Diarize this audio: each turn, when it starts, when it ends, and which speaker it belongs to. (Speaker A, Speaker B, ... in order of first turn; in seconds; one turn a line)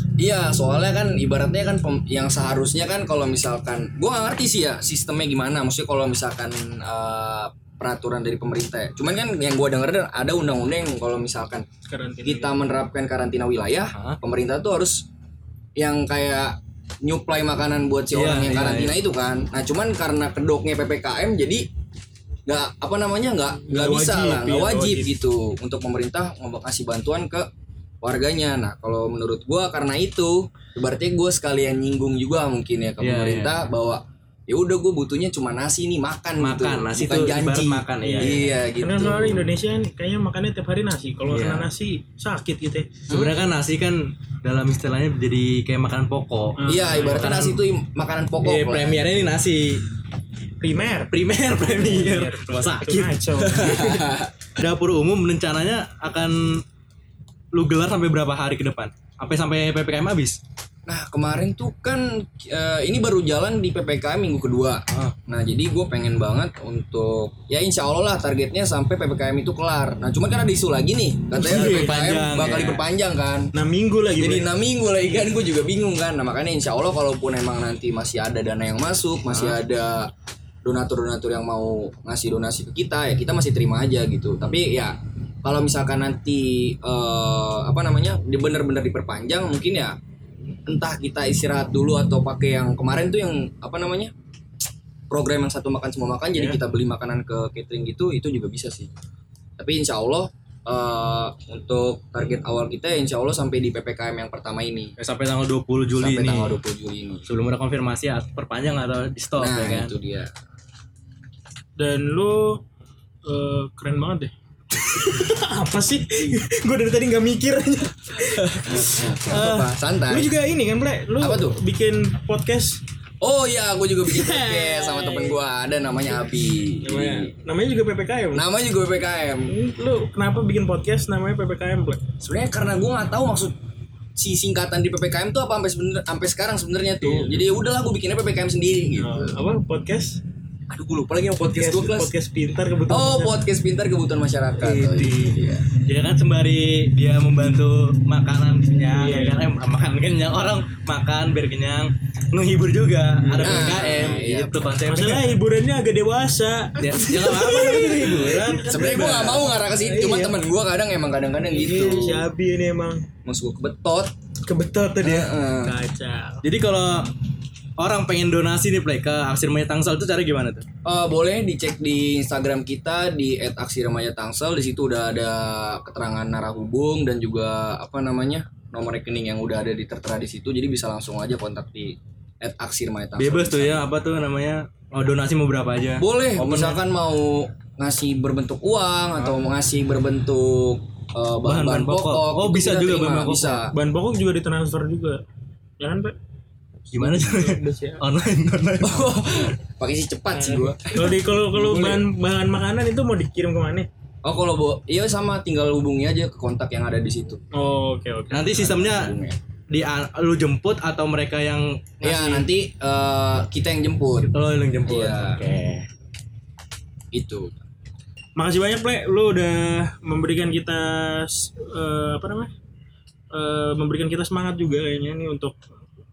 Speaker A: 0.2-11.6
Speaker B: 11.9-12.6
Speaker A: 12.2-15.1
Speaker A: 15.8-21.6
Speaker C: 18.1-19.0
Speaker A: 22.4-27.5
Speaker B: 23.6-25.1
Speaker A: 28.0-39.5
Speaker C: 33.0-33.5
Speaker C: 36.4-38.4
Speaker B: 38.0-42.9
Speaker C: 41.3-41.7
Speaker A: 43.1-43.4
Speaker C: 43.1-47.6
Speaker B: 46.6-47.5
Speaker A: 46.7-49.1
Speaker C: 48.4-49.8
Speaker B: 50.6-53.8
Speaker C: 51.1-56.6
Speaker A: 53.5-54.3
Speaker C: 57.5-60.4
Speaker A: 60.9-73.5
Speaker C: 71.4-72.8
Speaker B: 71.5-72.0
Speaker B: 73.5-74.5
Speaker A: 74.2-80.1
Speaker C: 79.3-79.6
Speaker A: 80.6-90.0
Speaker A: 90.7-94.1
Speaker A: 95.1-98.9
Speaker C: 96.3-96.6
Speaker A: 99.6-104.9
Speaker C: 105.0-106.6
Speaker A: 106.0-107.3
Speaker C: 107.3-109.9
Speaker A: 109.4-110.3
Speaker B: 111.8-112.6
Speaker B: 113.2-122.8
Speaker A: 118.5-120.3
Speaker A: 121.2-121.5
Speaker A: 123.2-127.3
Speaker B: 124.1-125.4
Speaker B: 126.8-128.4
Speaker A: 128.3-129.5
Speaker B: 129.5-132.0
Speaker A: 132.2-133.5
Speaker A: 134.2-139.4
Speaker B: 137.0-137.4
Speaker B: 139.0-140.2
Speaker A: 140.7-142.1
Speaker B: 141.4-143.4
Speaker A: 142.9-145.7
Speaker B: 144.6-145.4
Speaker C: 145.8-155.3
Speaker B: 148.9-149.4
Speaker B: 153.2-154.2
Speaker A: 153.4-154.7
Speaker B: 154.8-158.7
Speaker C: 156.8-159.5
Speaker A: 158.6-162.3
Speaker B: 159.7-160.4
Speaker B: 161.4-163.0
Speaker A: 163.2-164.1
Speaker B: 164.4-166.4
Speaker A: 165.0-165.7
Speaker C: 166.4-167.1
Speaker C: 167.8-170.6
Speaker A: 170.8-183.9
Speaker C: 183.2-186.8
Speaker A: 186.0-193.7
Speaker C: 191.4-193.6
Speaker B: 193.7-195.2
Speaker B: 195.8-196.1
Speaker C: 196.9-199.2
Speaker B: 196.9-198.0
Speaker A: 198.8-202.1
Speaker B: 200.3-203.9
Speaker A: 204.2-207.4
Speaker B: 207.5-208.5
Speaker C: 208.3-209.1
Speaker A: 208.5-209.4
Speaker C: 209.7-212.4
Speaker A: 212.0-214.3
Speaker C: 214.2-215.9
Speaker A: 214.9-215.4
Speaker A: 217.1-217.6
Speaker B: 218.4-222.5
Speaker B: 223.3-225.6